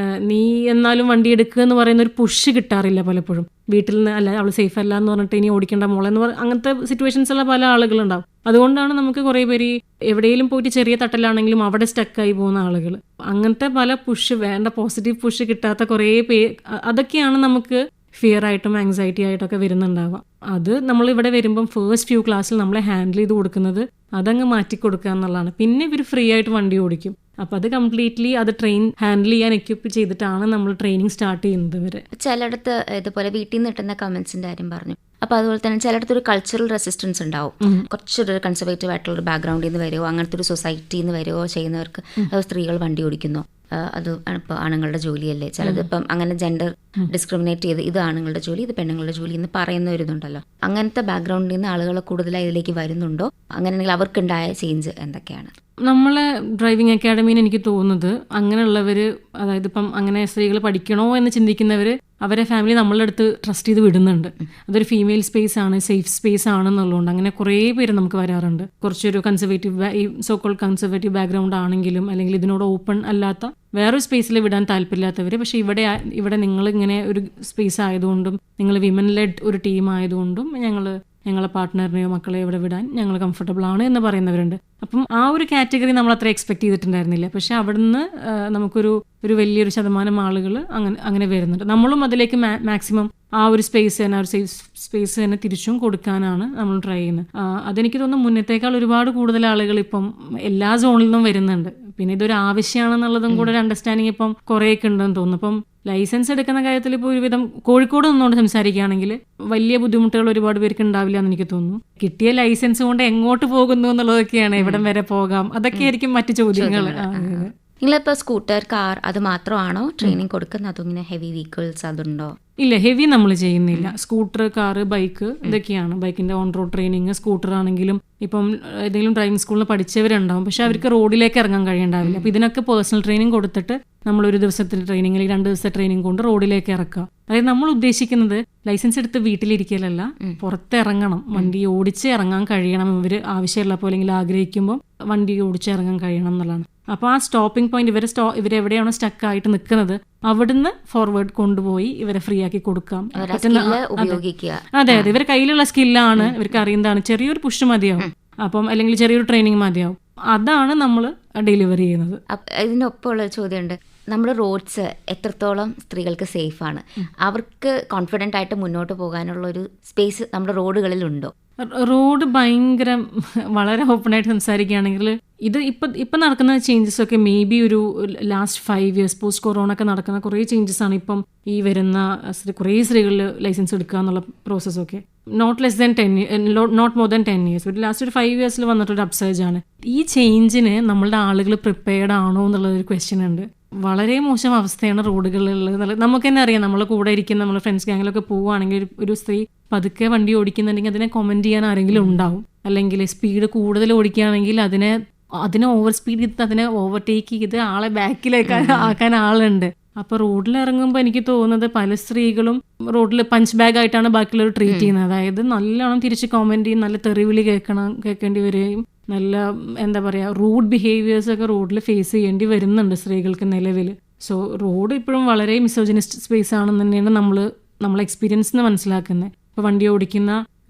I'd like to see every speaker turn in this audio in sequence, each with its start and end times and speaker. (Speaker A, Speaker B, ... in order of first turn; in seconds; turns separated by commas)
Speaker A: 0.3-32.0, Speaker B: 32.1-55.5, Speaker A: 55.9-117.5, Speaker B: 114.6-114.8, Speaker B: 116.6-122.3, Speaker A: 122.6-154.2, Speaker B: 132.0-132.3, Speaker B: 153.2-155.1, Speaker A: 154.8-162.2, Speaker B: 162.3-171.3, Speaker A: 171.8-173.0, Speaker A: 173.6-204.9, Speaker B: 201.9-202.3, Speaker A: 205.5-230.4, Speaker B: 208.5-209.0, Speaker B: 214.7-214.9